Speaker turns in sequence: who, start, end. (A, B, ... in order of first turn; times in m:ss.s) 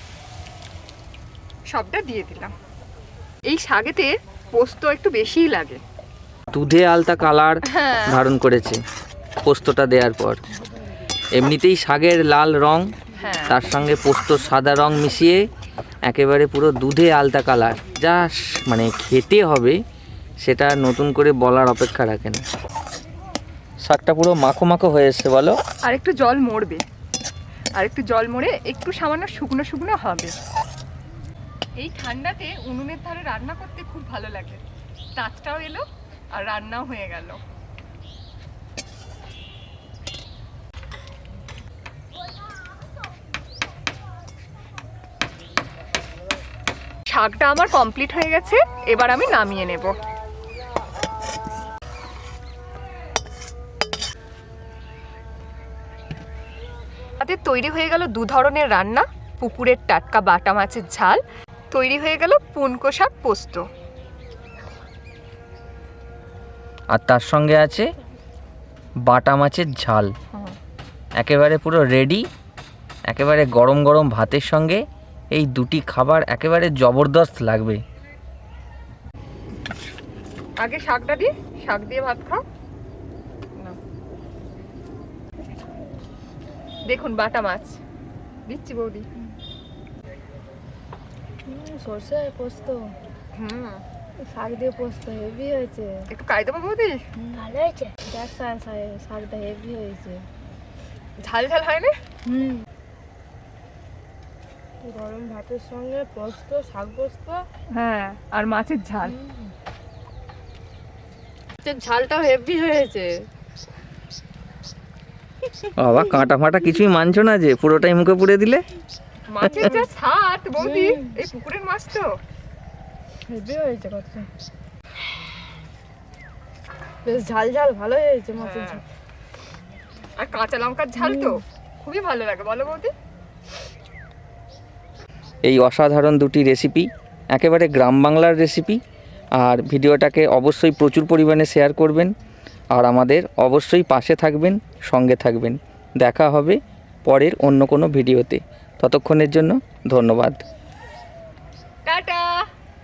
0:01.7-0:02.5 A
0:03.5-0:05.8 A
0:06.5-0:08.8 B
0:07.6-0:08.2 A
0:09.4-0:10.4 B
0:11.3-0:12.9 B
0:13.1-0:13.6 A
0:13.5-0:15.4 B
0:16.0-0:19.8 B
0:20.4-0:22.4 B
0:23.8-0:25.6 B
0:25.8-0:26.8 A
0:27.8-0:30.3 A
0:31.8-0:34.6 A
0:35.2-0:37.4 A
0:47.1-0:50.0 A
0:57.2-1:03.6 A
1:06.9-1:07.9 B
1:09.0-1:10.1 B
1:11.2-1:12.2 B
1:13.1-1:17.8 B
1:20.6-1:22.4 A
1:26.9-1:27.8 A
1:28.5-1:29.0 A
1:31.5-1:32.9 C
1:33.3-1:33.8 A
1:34.2-1:36.0 C
1:36.1-1:37.0 A
1:37.2-1:40.2 C
1:41.2-1:41.9 A
1:42.2-1:42.6 C
1:44.8-1:47.4 C
1:47.7-1:49.1 A
1:49.0-1:49.5 C
1:51.6-1:53.3 C
1:55.8-1:58.6 B
1:59.3-2:02.1 A
1:59.4-1:59.8 C
2:00.6-2:01.2 C
2:03.3-2:04.3 C
2:07.0-2:08.8 C
2:08.4-2:08.8 A
2:10.2-2:12.9 A
2:11.0-2:11.4 C
2:15.4-2:18.8 B
2:19.4-2:22.1 B
2:22.7-2:30.4 B
2:31.8-2:32.5 A